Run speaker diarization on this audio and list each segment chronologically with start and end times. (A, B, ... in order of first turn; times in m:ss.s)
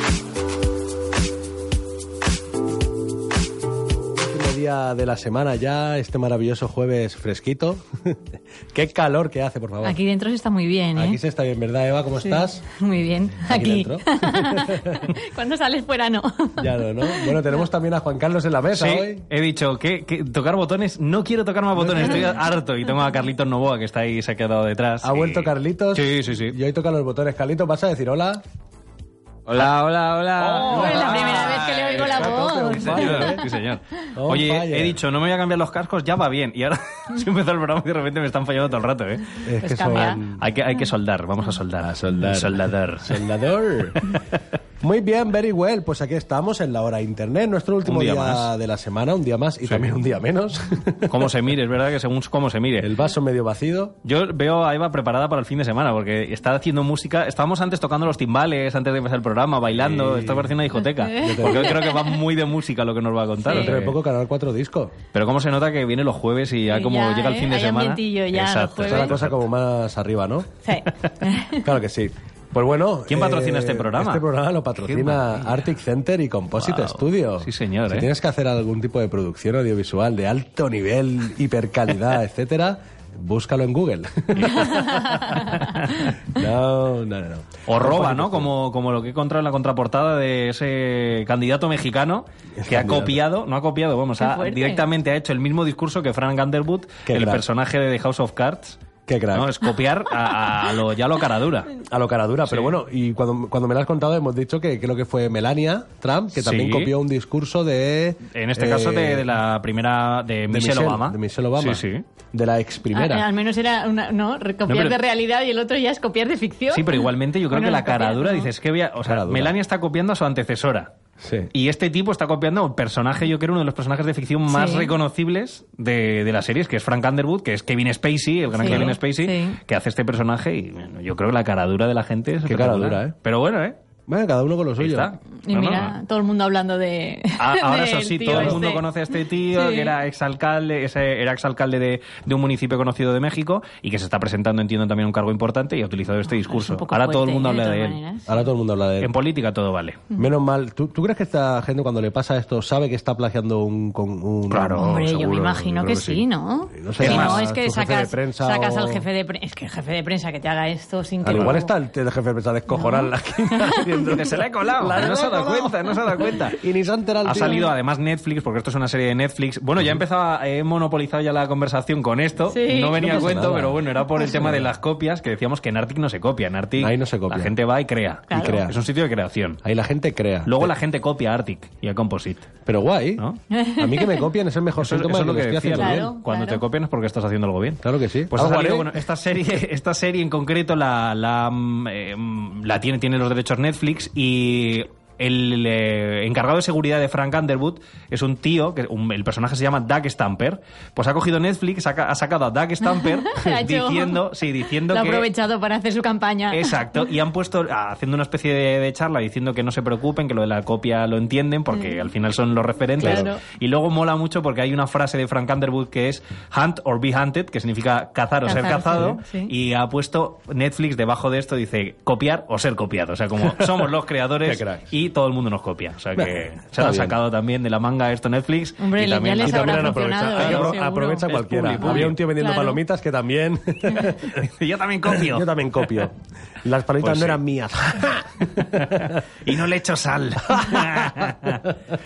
0:04.1-0:10.0 A
0:09.8-0:11.2 B
0:11.0-0:12.6 A
0:12.2-0:17.6 B
0:13.4-0:15.0 A
0:16.6-0:19.2 A
0:18.7-0:26.6 C
0:21.7-0:22.4 A
0:25.0-0:28.4 A
0:29.5-0:39.4 C
0:30.4-0:33.4 A
0:30.6-0:33.4 B
0:34.1-0:35.0 A
0:39.4-0:40.4 A
0:39.6-0:40.2 B
0:39.9-0:43.3 C
0:41.8-0:44.0 A
0:44.8-0:51.2 A
0:47.8-0:48.5 C
0:51.1-0:52.9 C
0:52.8-0:54.0 A
0:54.0-1:04.0 C
0:59.7-1:00.5 A
1:01.0-1:02.0 B
1:01.2-1:01.8 A
1:03.4-1:03.7 B
1:03.5-1:05.0 A
1:05.1-1:09.4 C
1:06.7-1:09.2 B
1:08.8-1:10.5 A
1:10.6-1:11.6 B
1:11.6-1:25.4 A
1:13.1-1:14.2 C
1:14.8-1:15.7 C
1:16.6-1:18.1 C
1:24.4-1:26.1 C
1:24.5-1:25.7 B
1:26.3-1:28.5 A
1:27.7-1:38.8 C
1:32.6-1:33.2 A
1:34.2-1:34.8 B
1:37.0-1:37.4 A
1:39.1-1:39.5 A
1:39.3-1:41.7 C
1:41.9-1:49.2 A
1:42.5-1:42.8 C
1:46.3-1:46.9 C
1:48.3-1:52.0 C
1:50.5-1:53.2 A
1:52.9-1:58.5 B
1:54.7-1:55.0 C
1:56.7-2:00.9 C
1:59.0-1:59.5 A
2:01.2-2:01.5 A
2:01.5-2:13.8 C
2:04.5-2:04.9 B
2:08.5-2:09.6 B
2:08.6-2:08.9 A
2:12.4-2:13.1 A
2:14.1-2:15.1 A
2:14.8-2:16.0 C
2:15.5-2:18.8 B
2:17.4-2:28.0 C
2:18.3-2:18.6 A
2:19.5-2:19.9 B
2:26.4-2:28.4 B
2:28.3-2:29.1 A
2:29.0-2:30.0 C
2:30.2-2:39.0 A
2:34.5-2:35.4 C
2:34.8-2:41.7 B
2:37.0-2:37.5 C
2:41.2-2:44.3 A
2:42.7-2:43.8 B
2:44.0-2:46.6 C
2:44.8-2:47.6 A
2:47.2-2:59.6 C
2:47.4-2:47.7 B
2:52.5-2:53.4 B
2:53.0-2:54.6 A
2:56.8-2:57.5 A
2:58.3-2:58.7 A
2:59.6-3:00.7 A
3:00.4-3:02.5 C
3:02.6-3:03.2 A
3:03.5-3:04.2 B
3:03.8-3:06.1 A
3:04.8-3:07.8 C
3:05.8-3:06.6 B
3:07.8-3:08.9 A
3:08.3-3:25.3 C
3:22.8-3:24.2 B
3:24.9-3:27.0 B
3:26.5-3:52.2 C
3:31.7-3:32.1 B
3:33.0-3:33.4 B
3:33.0-3:33.3 A
3:38.4-3:39.5 B
3:44.4-3:44.9 A
3:46.2-3:47.2 A
3:48.8-3:51.3 B
3:49.4-3:54.4 A
3:51.8-3:52.8 B
3:54.3-3:55.5 C
3:55.1-3:59.1 A
3:57.0-3:57.4 C
3:58.8-4:01.6 C
4:00.6-4:01.0 A